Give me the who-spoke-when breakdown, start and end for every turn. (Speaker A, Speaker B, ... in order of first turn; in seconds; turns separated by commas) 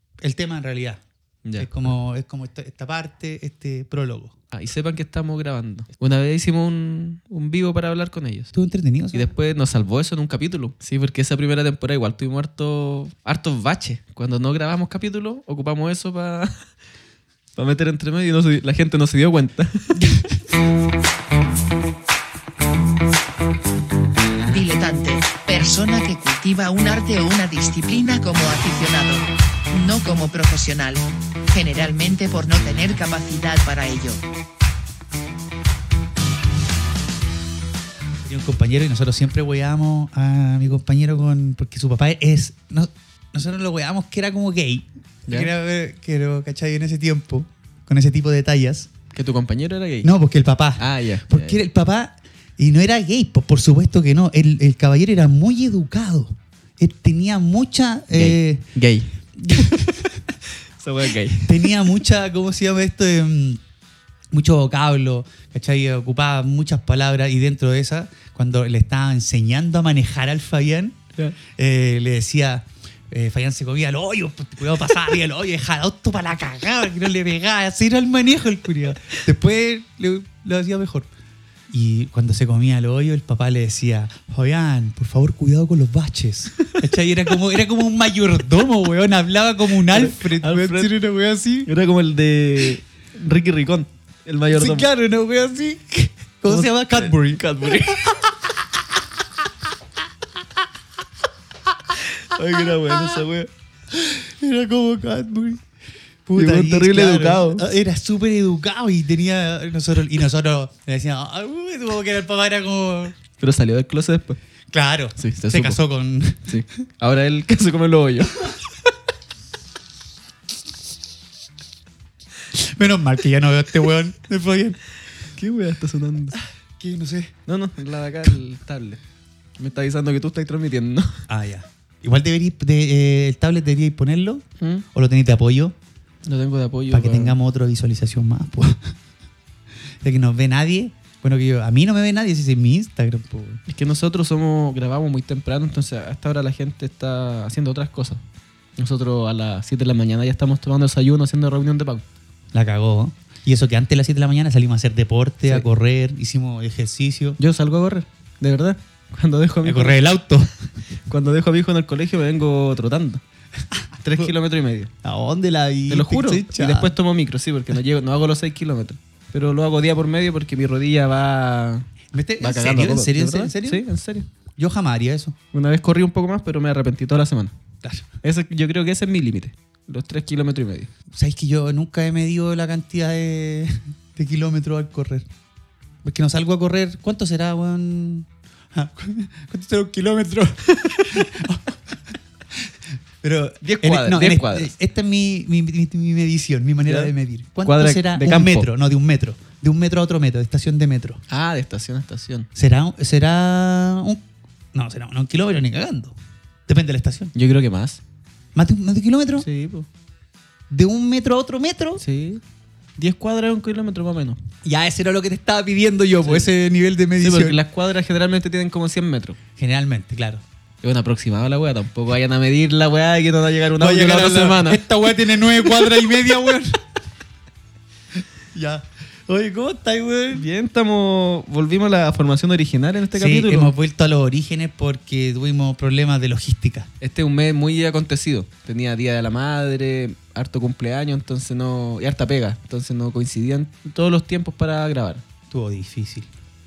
Speaker A: 0.2-1.0, Speaker B: 1.4-1.7, Speaker A: 1.6-4.3, Speaker B: 4.5-8.5, Speaker A: 8.5-9.3, Speaker B: 9.1-16.5, Speaker B: 17.6-20.1, Speaker C: 24.4-34.2, Speaker A: 38.2-48.9, Speaker B: 49.1-50.1, Speaker A: 50.0-58.6, Speaker B: 50.8-51.6, Speaker B: 58.1-60.0, Speaker A: 59.5-59.9, Speaker B: 60.8-61.7, Speaker A: 61.4-63.6, Speaker A: 64.3-81.1, Speaker A: 81.7-91.7, Speaker B: 89.9-90.9, Speaker B: 91.7-94.9, Speaker A: 94.5-99.0, Speaker B: 96.5-98.2, Speaker B: 102.2-103.5, Speaker A: 103.9-105.6, Speaker A: 106.2-113.2, Speaker B: 106.3-107.7, Speaker B: 113.4-114.4, Speaker A: 114.7-116.6, Speaker B: 115.2-115.8, Speaker B: 116.5-118.5, Speaker A: 122.5-124.8, Speaker B: 125.4-126.4, Speaker A: 126.8-127.3, Speaker B: 127.5-129.0, Speaker B: 129.6-131.2, Speaker A: 131.3-135.7, Speaker B: 136.2-137.3, Speaker A: 136.9-138.9, Speaker A: 140.0-143.6, Speaker B: 143.7-148.2, Speaker B: 148.8-152.0, Speaker A: 152.5-157.4, Speaker B: 157.4-160.0, Speaker A: 159.6-160.5, Speaker B: 161.1-163.2, Speaker B: 164.0-164.9, Speaker A: 165.0-166.9, Speaker B: 165.9-171.9, Speaker A: 172.1-173.8, Speaker B: 172.4-174.3, Speaker A: 174.6-175.3, Speaker B: 175.5-177.5, Speaker B: 178.2-180.9, Speaker A: 181.1-185.3, Speaker A: 186.0-192.0, Speaker A: 192.6-201.2, Speaker B: 193.6-194.7, Speaker B: 196.9-197.1, Speaker B: 197.6-198.7, Speaker B: 201.3-202.5, Speaker A: 202.5-204.2, Speaker A: 204.7-206.2, Speaker A: 206.7-207.3, Speaker B: 207.3-208.0, Speaker A: 208.5-209.5, Speaker B: 209.4-209.9, Speaker A: 210.7-212.0, Speaker B: 212.0-212.4, Speaker B: 213.0-214.4, Speaker A: 214.6-217.6, Speaker B: 217.2-219.4, Speaker A: 219.6-220.4, Speaker B: 220.8-224.8, Speaker A: 223.8-226.8, Speaker A: 228.5-230.4, Speaker B: 230.3-233.7, Speaker A: 233.1-236.9, Speaker B: 237.0-245.2, Speaker A: 245.5-246.3